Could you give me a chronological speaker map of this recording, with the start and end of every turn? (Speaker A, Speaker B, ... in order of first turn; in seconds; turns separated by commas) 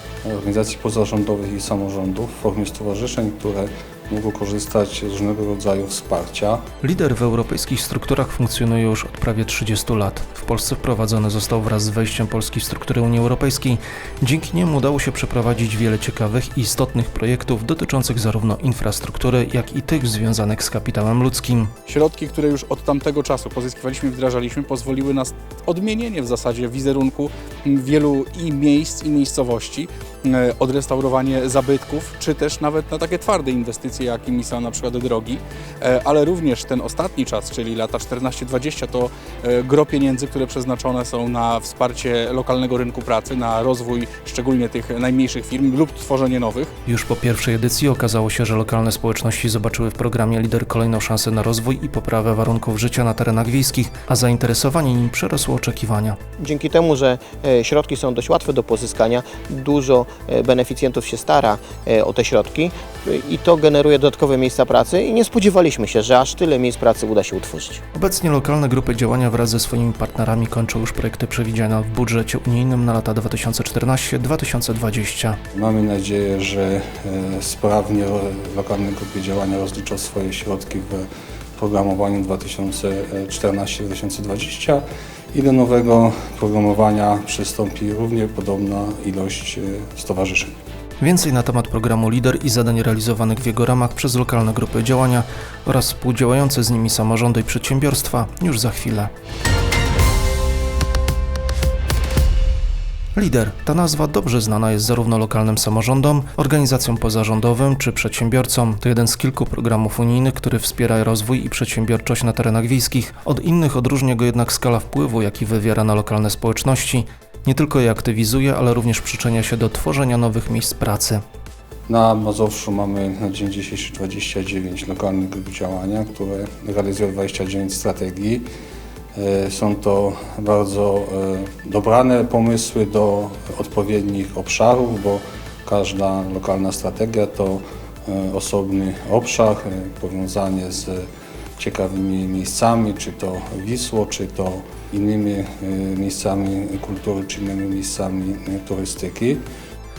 Speaker A: 0.2-6.6, Speaker B: 6.8-21.7, Speaker C: 21.9-46.7, Speaker B: 46.9-56.2, Speaker D: 56.4-67.8, Speaker B: 67.9-75.4, Speaker A: 75.5-90.5, Speaker B: 91.0-99.1, Speaker B: 103.1-121.2, Speaker A: 121.9-128.5, Speaker A: 129.1-141.1, Speaker A: 141.6-149.4